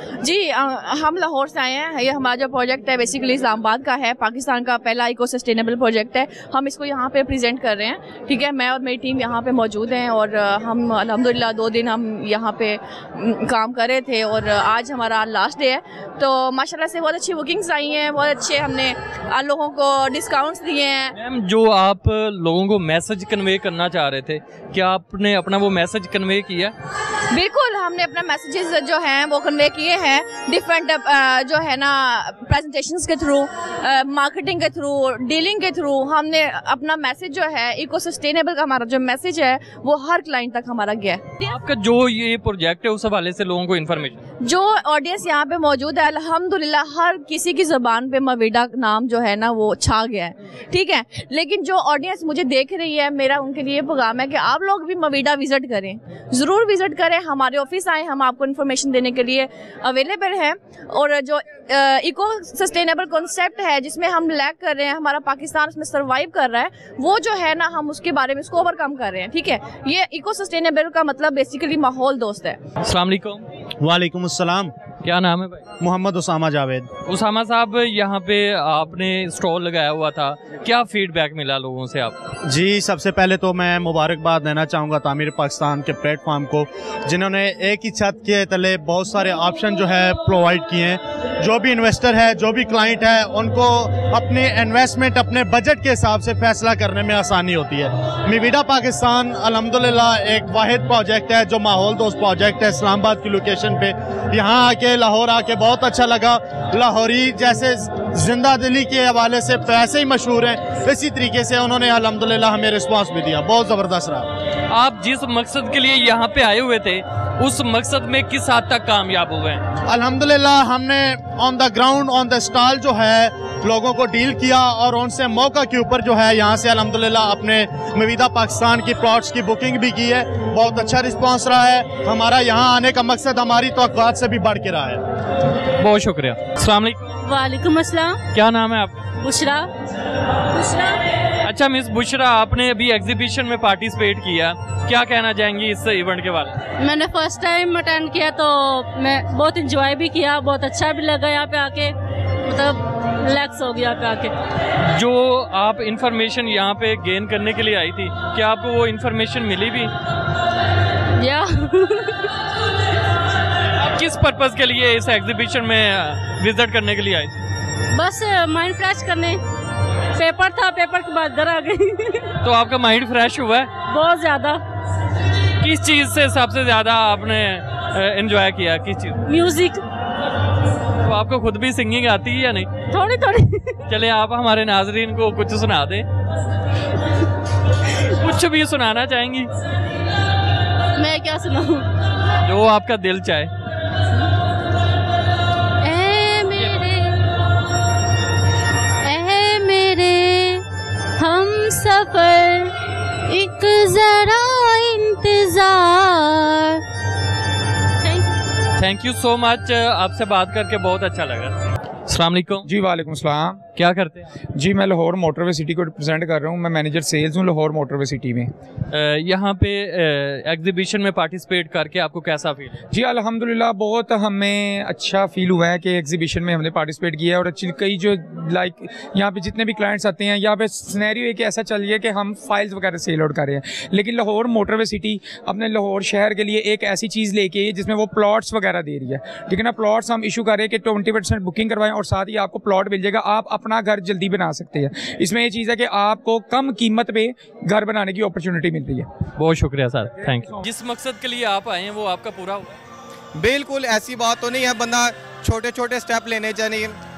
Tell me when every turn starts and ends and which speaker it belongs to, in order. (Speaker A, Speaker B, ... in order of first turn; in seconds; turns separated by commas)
Speaker A: 0.2-21.1, Speaker B: 21.1-26.7, Speaker A: 27.3-41.3, Speaker B: 41.4-44.2, Speaker A: 44.4-72.6, Speaker B: 72.8-73.5, Speaker C: 73.8-74.7, Speaker B: 75.0-75.6, Speaker C: 75.8-76.9, Speaker B: 77.1-82.2, Speaker C: 82.5-114.3, Speaker B: 114.7-119.6, Speaker C: 119.9-135.0, Speaker B: 135.8-137.2, Speaker D: 137.2-138.2, Speaker B: 138.3-139.1, Speaker D: 139.2-139.7, Speaker B: 141.4-146.6, Speaker D: 146.8-154.3, Speaker B: 154.9-159.9, Speaker D: 161.2-162.3, Speaker B: 163.9-167.3, Speaker D: 167.9-169.4, Speaker D: 170.1-172.3, Speaker B: 172.4-173.8, Speaker D: 173.9-174.6, Speaker B: 175.6-179.2, Speaker D: 179.3-179.8, Speaker B: 181.0-182.7, Speaker D: 182.9-183.8, Speaker B: 183.9-186.1, Speaker B: 188.1-189.5, Speaker D: 191.0-191.9, Speaker B: 192.4-193.5, Speaker D: 195.8-197.2, Speaker D: 199.0-200.7, Speaker D: 201.2-202.7, Speaker D: 203.3-206.8, Speaker D: 208.0-208.3, Speaker B: 208.8-211.6, Speaker B: 212.1-212.7, Speaker E: 212.7-213.6, Speaker B: 213.8-214.2, Speaker E: 214.6-218.5, Speaker B: 218.9-222.8, Speaker E: 222.9-249.1, Speaker B: 249.4-252.7, Speaker E: 250.3-250.6, Speaker F: 253.3-257.0